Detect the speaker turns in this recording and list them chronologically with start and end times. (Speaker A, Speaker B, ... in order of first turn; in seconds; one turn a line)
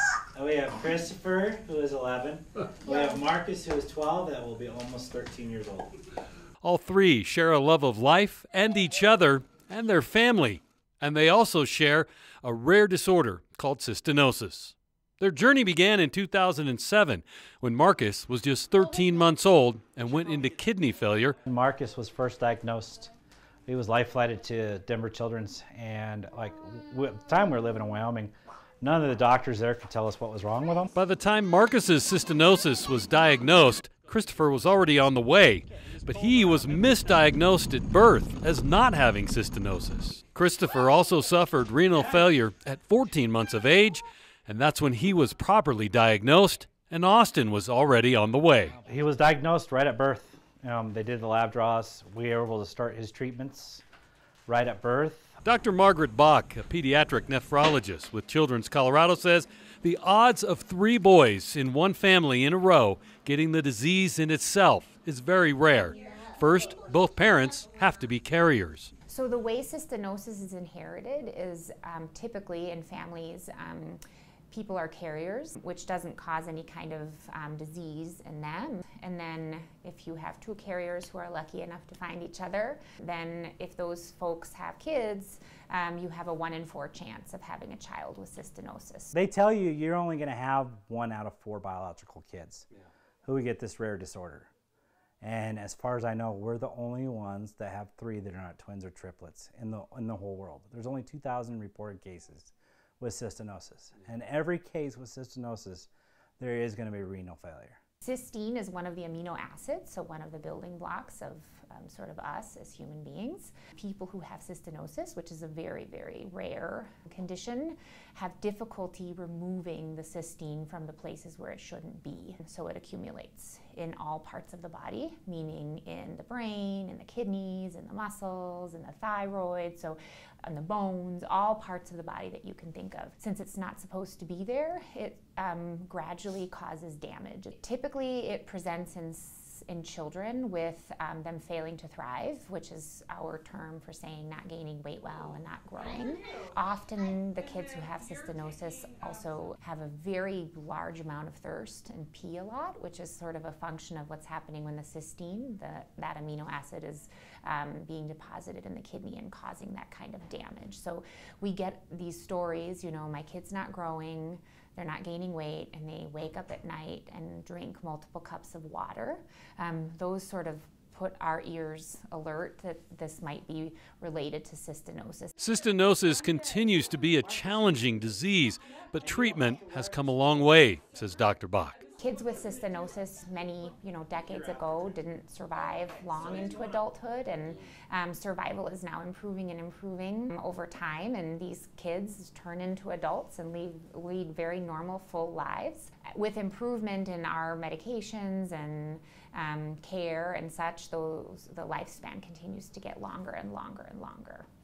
Speaker A: 0.3-5.9
Speaker B: 6.6-21.4
Speaker A: 21.4-23.1
Speaker A: 23.7-30.9
Speaker B: 30.9-48.8
Speaker A: 48.8-53.8
Speaker A: 54.5-55.4
Speaker B: 55.4-68.9
Speaker C: 69.1-74.0
Speaker C: 74.5-89.2
Speaker A: 89.1-92.7
Speaker A: 93.2-94.5
Speaker A: 95.2-107.8
Speaker C: 108.0-175.3
Speaker B: 175.4-181.8
Speaker C: 182.0-204.4